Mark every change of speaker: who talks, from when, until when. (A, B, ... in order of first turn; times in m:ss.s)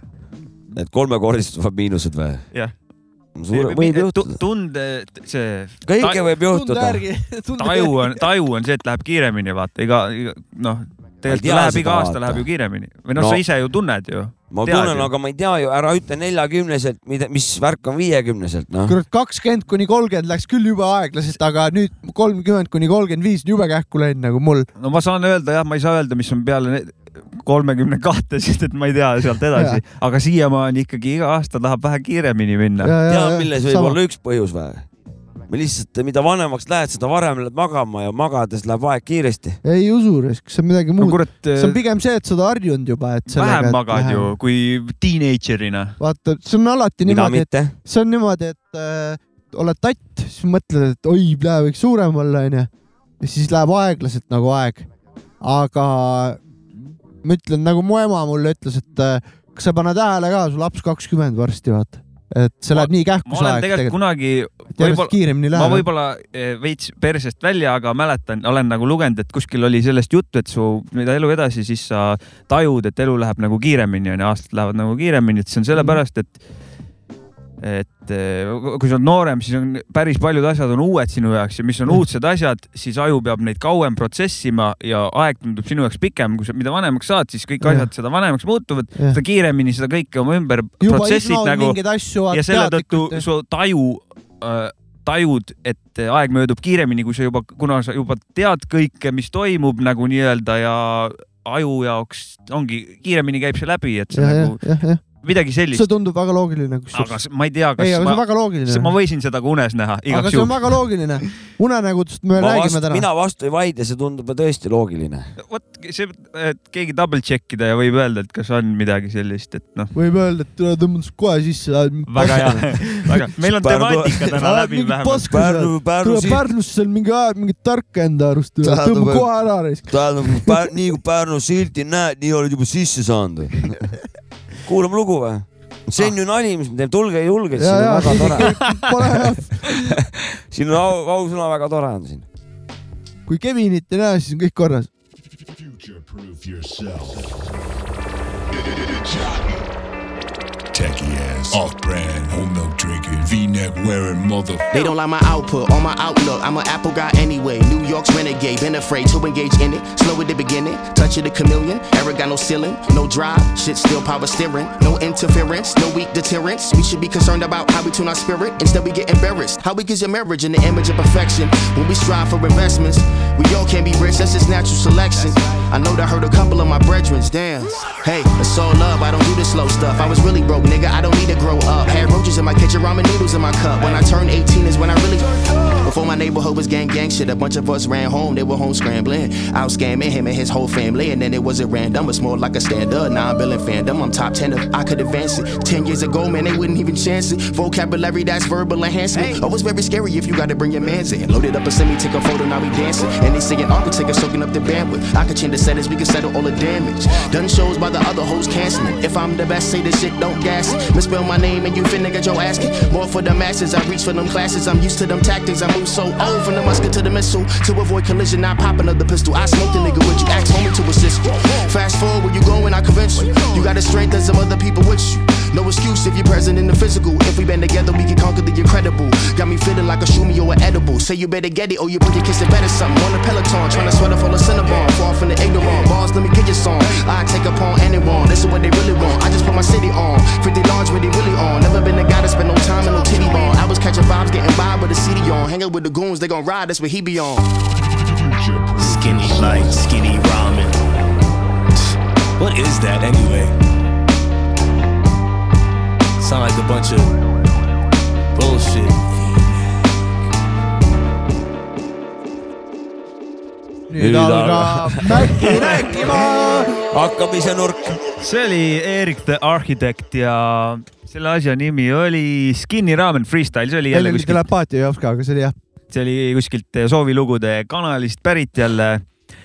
0:00.7-0:02.4 A
0:03.4-0:04.3 A
0:03.5-0:06.2 B
0:05.8-0:07.0 A
0:06.5-0:08.2 C
0:07.6-0:15.1 B
0:11.2-0:12.4 A
0:13.1-0:13.4 A
0:14.5-0:19.0 A
0:18.8-0:24.7 C
0:24.8-0:32.9 B
0:29.6-0:29.8 C
0:32.8-0:34.0 C
0:33.0-0:34.8 A
0:35.5-0:39.6 A
0:39.6-0:44.3 C
0:41.0-0:41.8 B
0:43.3-0:46.0 B
0:46.0-0:52.7 C
0:47.0-0:47.7 A
0:53.2-0:54.8 C
0:55.4-0:56.4 C
0:57.2-1:04.0 C
1:02.7-1:16.4 B
1:04.8-1:05.8 C
1:15.7-1:16.0 C
1:17.6-1:45.9 B
1:27.6-1:27.9 C
1:30.8-1:33.2 C
1:44.1-1:45.0 C
1:45.7-1:47.2 C
1:46.9-1:50.8 B
1:47.8-1:48.9 C
1:50.1-1:53.0 C
1:52.4-1:55.3 A
1:55.4-1:59.9 B
1:59.9-2:02.8 C
2:02.1-2:05.3 B
2:03.4-2:04.3 A
2:04.4-2:10.7 C
2:05.2-2:06.4 A
2:08.6-2:09.3 A
2:09.9-2:13.8 A
2:14.6-2:18.6 A
2:17.6-2:19.6 C
2:19.7-2:22.2 A
2:23.3-2:24.9 C
2:25.5-2:27.6 D
2:28.5-2:29.6 D
2:30.7-2:35.0 D
2:34.7-4:07.4 E
4:07.8-4:09.9 D
4:08.8-4:10.8 F
4:12.4-4:13.5 F
4:16.2-4:17.1 F
4:18.3-4:19.4 F
4:23.9-4:26.7 C
4:24.0-4:26.1 A
4:25.4-4:25.8 B
4:26.7-4:28.0 A
4:28.2-4:34.4 B
4:33.9-4:35.5 C
4:35.9-4:39.0 B